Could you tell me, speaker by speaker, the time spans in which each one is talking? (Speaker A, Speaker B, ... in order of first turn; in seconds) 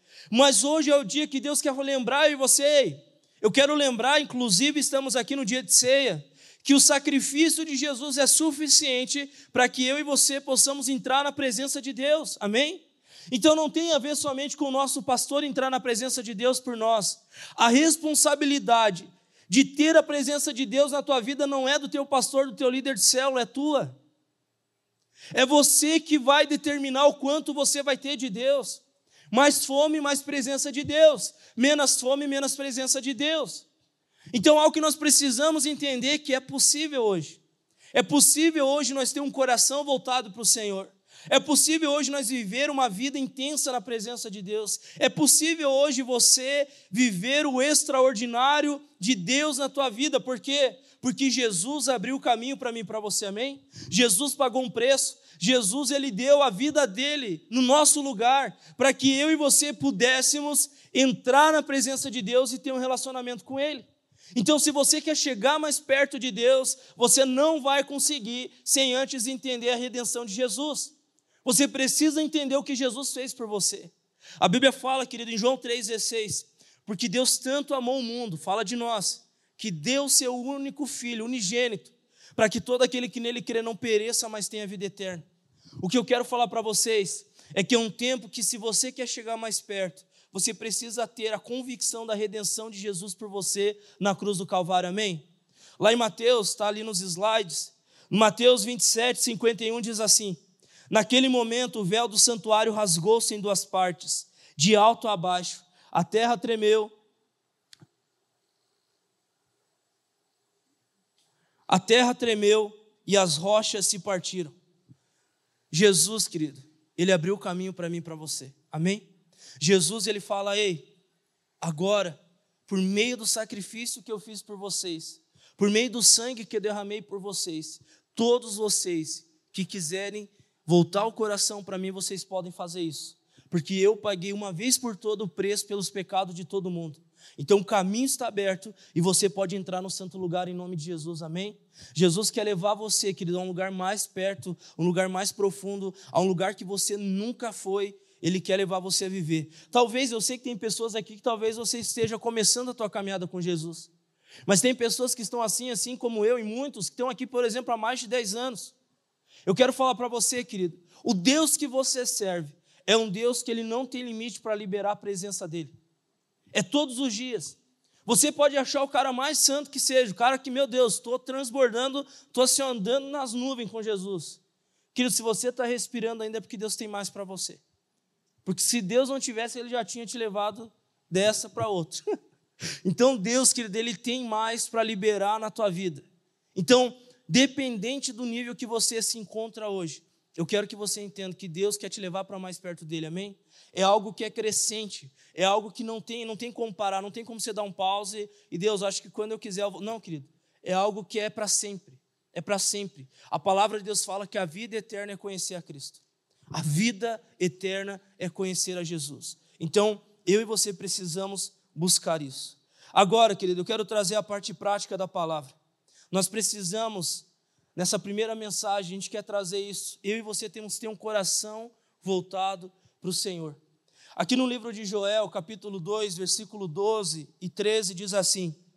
Speaker A: 0.3-23.9, 25.3-33.7, 34.3-37.4, 37.9-85.2, 85.8-95.3, 95.8-106.9, 111.7-114.5, 115.7-119.1, 119.6-120.9, 121.6-153.9, 154.5-158.7, 159.5-165.7, 166.5-174.4, 174.9-177.6, 178.4-182.0, 182.8-215.6, 216.1-223.6, 224.2-228.6